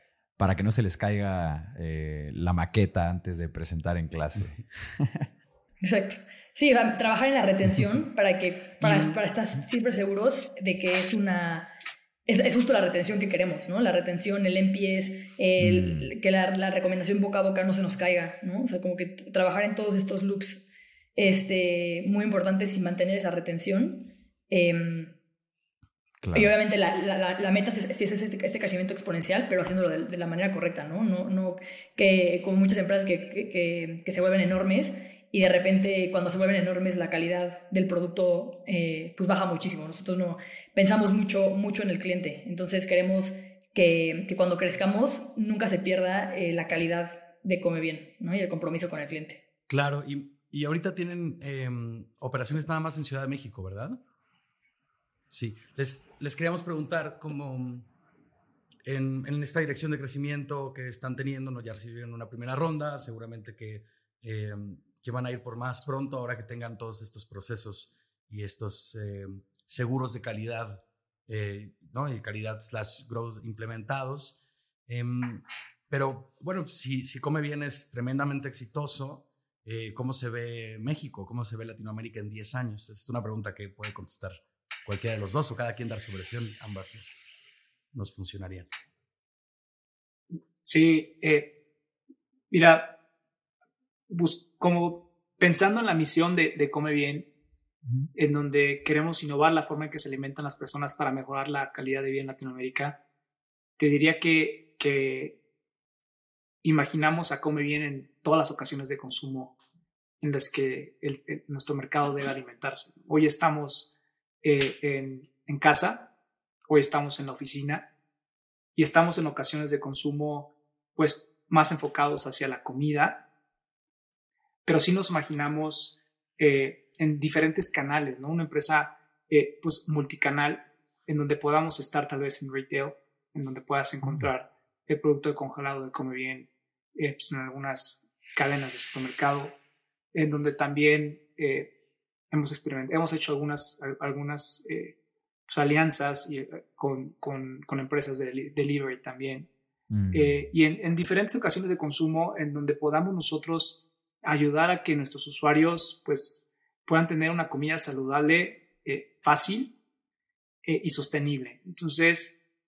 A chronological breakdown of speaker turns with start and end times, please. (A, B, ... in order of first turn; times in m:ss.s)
0:00.4-0:05.3 A
0:05.8-0:11.7 B
0:08.8-0:09.1 C
0:12.3-0:25.1 B
0:15.6-0:16.1 A
0:26.2-0:26.5 A
0:26.3-0:49.4 B
0:49.7-0:54.0 C
0:55.3-0:57.9 C
0:58.8-1:14.4 C
1:14.9-1:27.2 C
1:27.9-1:28.7 C
1:30.6-1:31.5 D
1:32.5-1:33.0 D
1:34.1-1:37.3 D
1:38.1-1:43.0 D
1:43.8-1:45.4 D
1:46.6-1:49.6 D
1:50.2-1:56.1 D
1:56.7-1:57.9 D
1:58.8-2:03.2 D
2:04.6-2:19.6 D
2:14.0-2:14.3 A
2:20.1-2:21.7 D
2:22.3-2:24.9 D
2:25.5-2:29.5 D
2:29.9-2:30.4 A
2:30.1-2:39.7 D
2:40.6-2:42.4 D